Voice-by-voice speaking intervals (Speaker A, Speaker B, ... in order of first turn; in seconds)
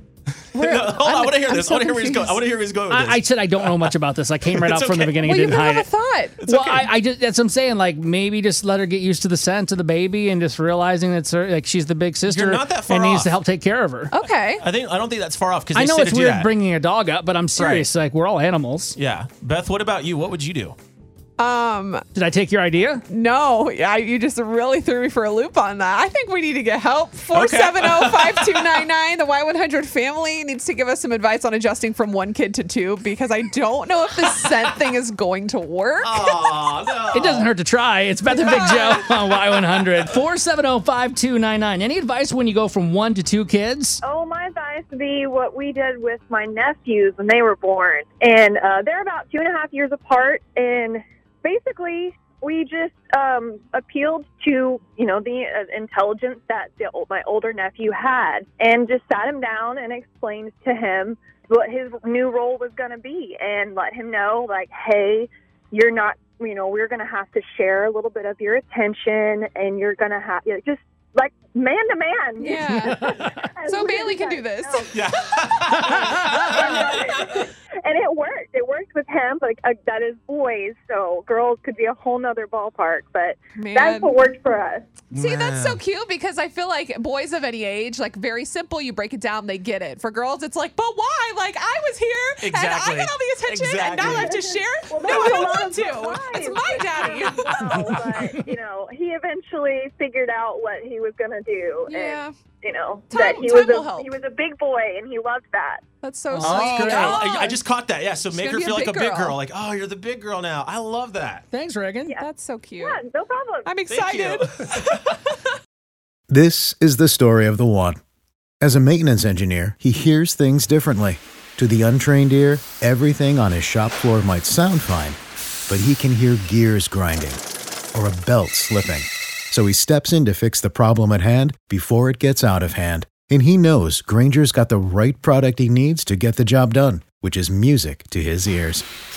Speaker A: 0.5-2.4, 5.2-6.4, 14.1-14.7, 21.4-22.0, 23.1-37.1, 38.3-39.1, 72.4-73.1, 73.7-75.2, 83.5-84.2, 85.1-97.5, 101.9-102.3, 103.1-104.1, 106.0-107.6, 108.3-109.4, 112.2-113.0, 113.7-115.4
Speaker B: 0.5-3.9, 4.5-5.2, 6.4-6.9, 12.2-13.3, 14.6-16.5, 17.6-17.9, 18.9-20.8, 27.3-28.9, 36.0-37.5, 38.4-38.9, 74.9-77.4, 85.1-85.8, 92.4-94.3, 95.0-95.5, 97.0-98.0, 106.4-111.4, 113.9-115.0
Speaker C: 2.9-5.9, 6.5-14.1, 15.7-19.0, 22.1-23.0, 37.1-44.0, 72.8-73.3, 75.9-76.7, 106.3-107.2, 111.5-112.2
Speaker D: 44.0-84.9, 94.0-105.8, 112.8-113.7
Speaker E: 116.3-118.0, 118.6-125.2, 125.7-127.4, 127.9-138.8